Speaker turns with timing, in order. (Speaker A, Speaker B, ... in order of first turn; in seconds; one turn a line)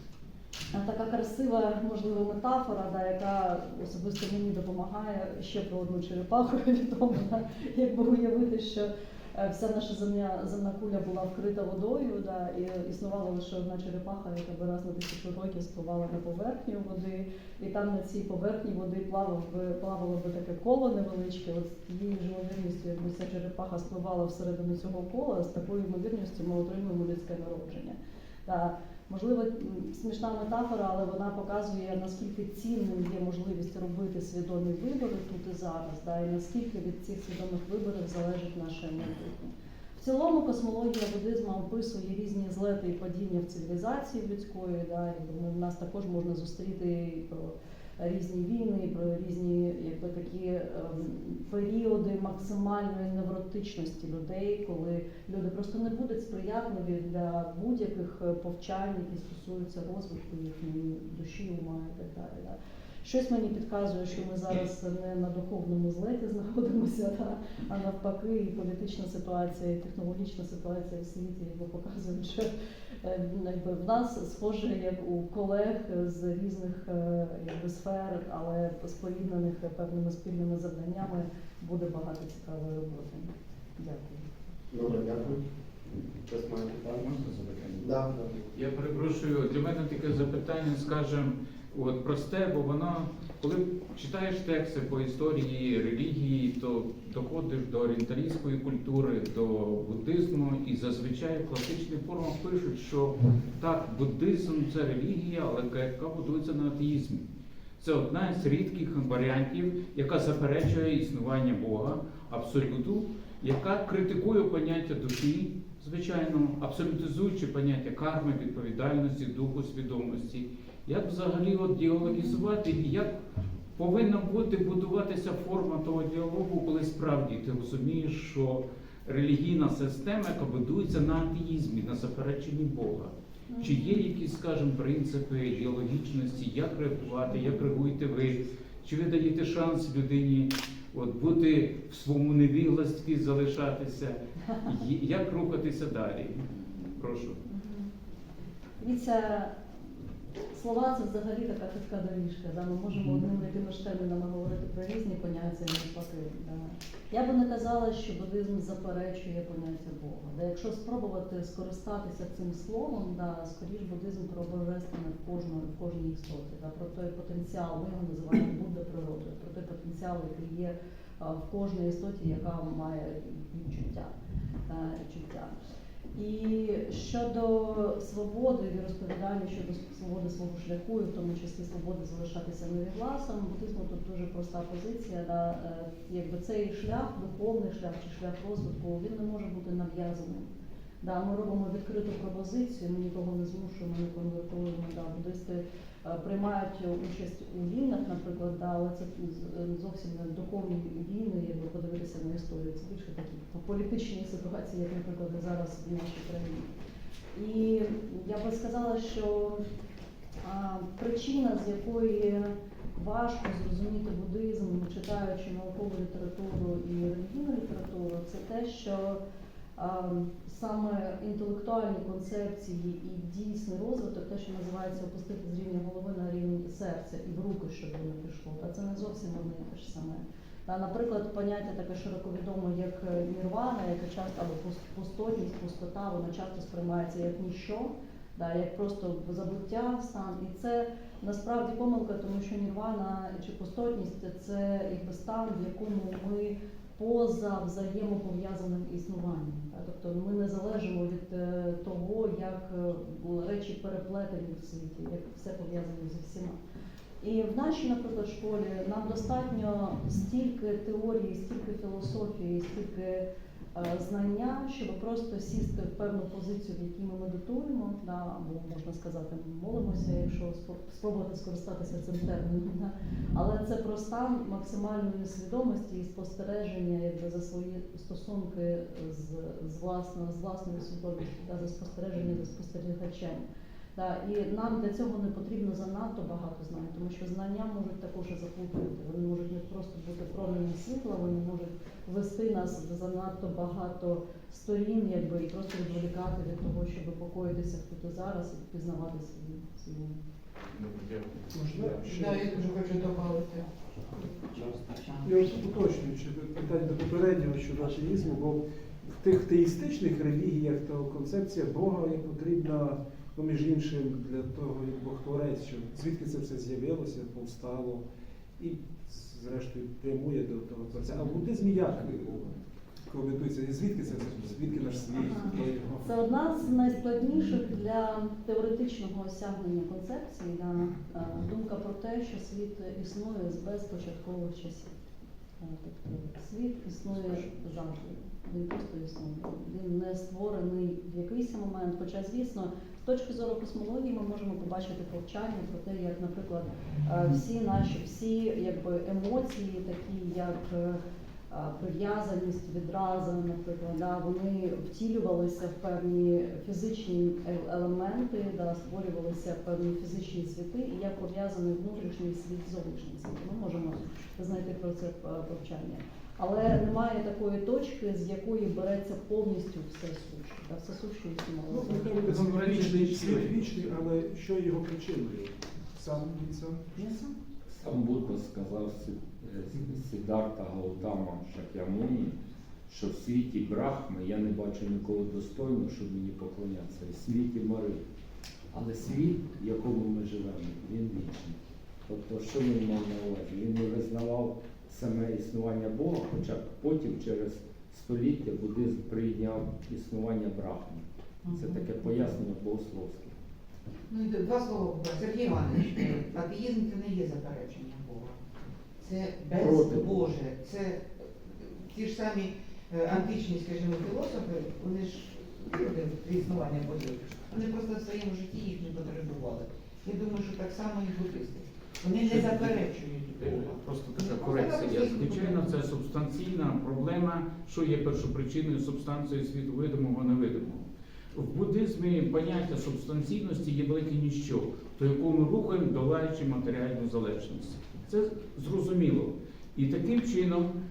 Speaker A: 0.7-72.5
Speaker A: 73.0-84.3
Speaker B: 84.7-85.4
Speaker B: 86.3-87.0
Speaker C: 86.8-87.9
Speaker B: 87.8-88.4
Speaker C: 88.5-107.2
Speaker C: 107.8-123.1
Speaker C: 123.8-147.4
Speaker A: 133.5-134.0
Speaker A: 147.4-147.9
Speaker A: 148.8-149.5
Speaker A: 150.5-174.1
Speaker A: 174.7-175.5
Speaker A: 176.1-190.5
Speaker A: 191.0-206.7
Speaker A: 207.3-209.6
Speaker A: 210.4-219.2
Speaker A: 219.8-256.6
Speaker A: 257.2-283.4
Speaker A: 283.9-300.2
Speaker C: 300.7-302.0
Speaker D: 301.5-302.7
Speaker E: 302.0-305.4
Speaker D: 305.2-318.0
Speaker D: 318.6-322.5
Speaker D: 323.1-326.5
Speaker A: 325.1-334.9
Speaker A: 335.6-372.1
Speaker D: 371.7-377.3
Speaker C: 372.1-373.9
Speaker F: 377.7-388.0
Speaker F: 388.7-403.4
Speaker E: 401.4-401.8
Speaker E: 404.1-408.4
Speaker E: 409.0-425.8
Speaker F: 409.5-410.1
Speaker C: 422.2-422.8
Speaker C: 423.3-440.7